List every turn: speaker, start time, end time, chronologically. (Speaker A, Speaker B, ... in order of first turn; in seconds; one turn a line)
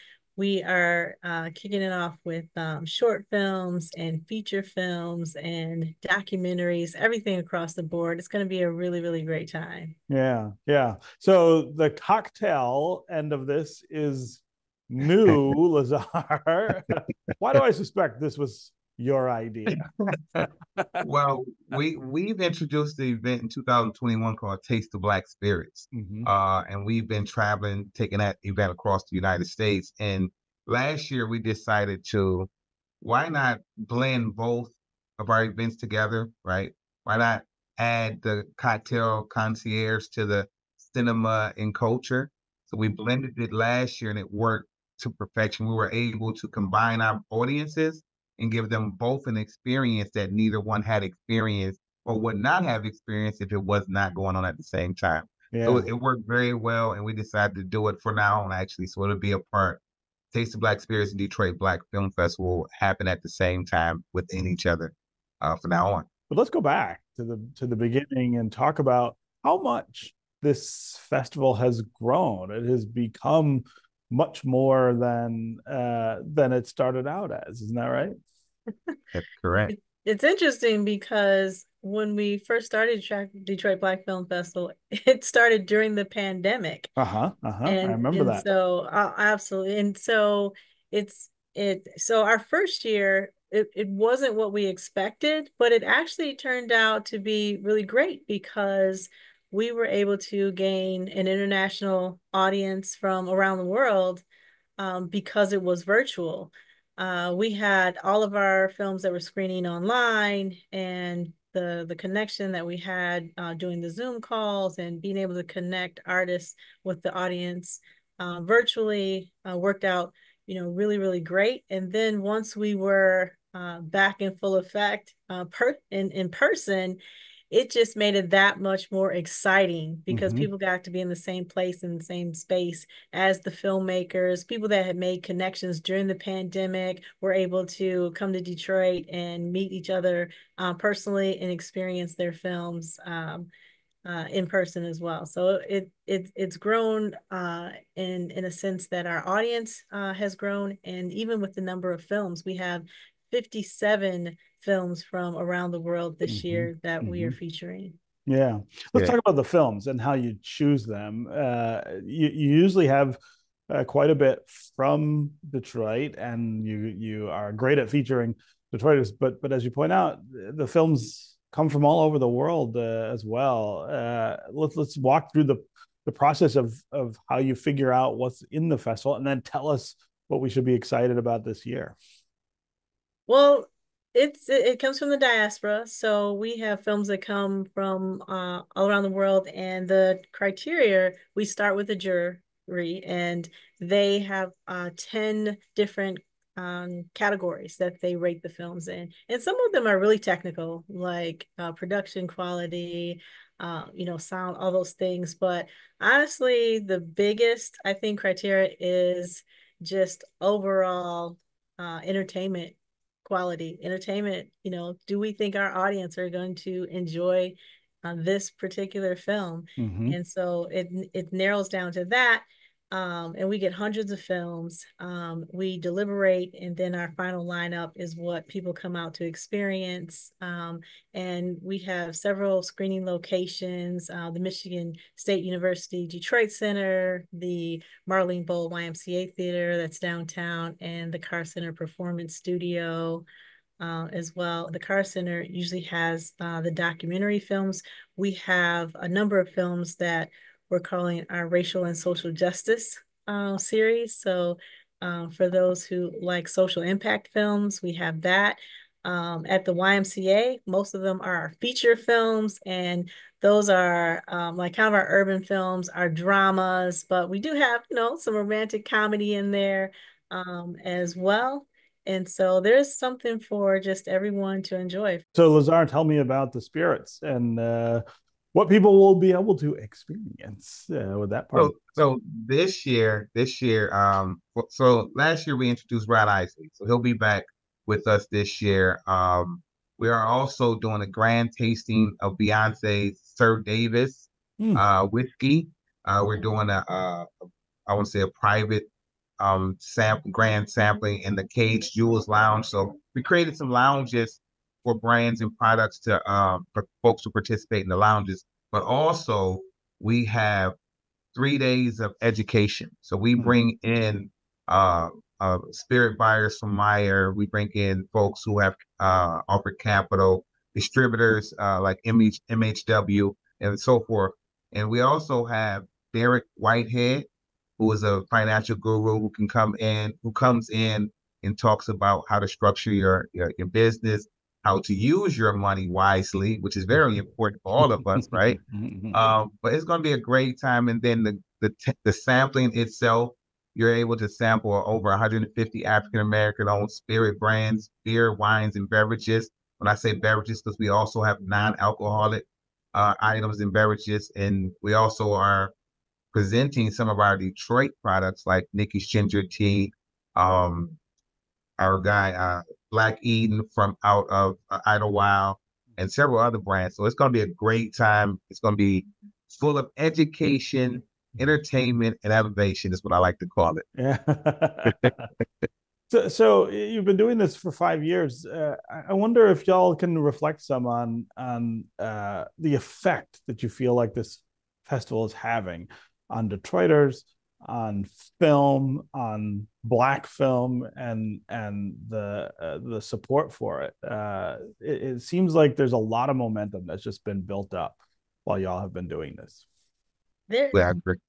Speaker A: 0.4-9.9
Speaker B: 10.1-20.9
Speaker C: 19.7-20.4
Speaker C: 21.0-32.5
Speaker B: 25.9-26.3
Speaker C: 33.0-59.8
Speaker B: 55.5-55.9
Speaker C: 60.3-66.1
Speaker B: 66.3-78.2
Speaker C: 79.1-79.7
Speaker A: 79.7-86.9
Speaker B: 87.0-88.5
Speaker A: 87.7-104.2
Speaker A: 104.8-127.0
Speaker A: 127.5-143.5
Speaker B: 130.1-130.5
Speaker A: 144.1-157.9
Speaker B: 156.3-157.4
Speaker B: 158.3-163.2
Speaker B: 163.7-182.0
Speaker A: 183.3-243.2
Speaker B: 219.8-220.2
Speaker A: 243.8-275.2
Speaker B: 275.4-281.9
Speaker C: 281.6-298.9
Speaker B: 294.6-294.9
Speaker C: 299.4-310.8
Speaker C: 311.4-338.6
Speaker B: 337.8-339.2
Speaker C: 339.1-355.7
Speaker C: 356.3-361.0
Speaker C: 361.8-373.8
Speaker B: 374.0-375.3
Speaker C: 374.9-375.1
Speaker B: 376.1-399.6
Speaker A: 400.5-400.8
Speaker C: 400.7-401.2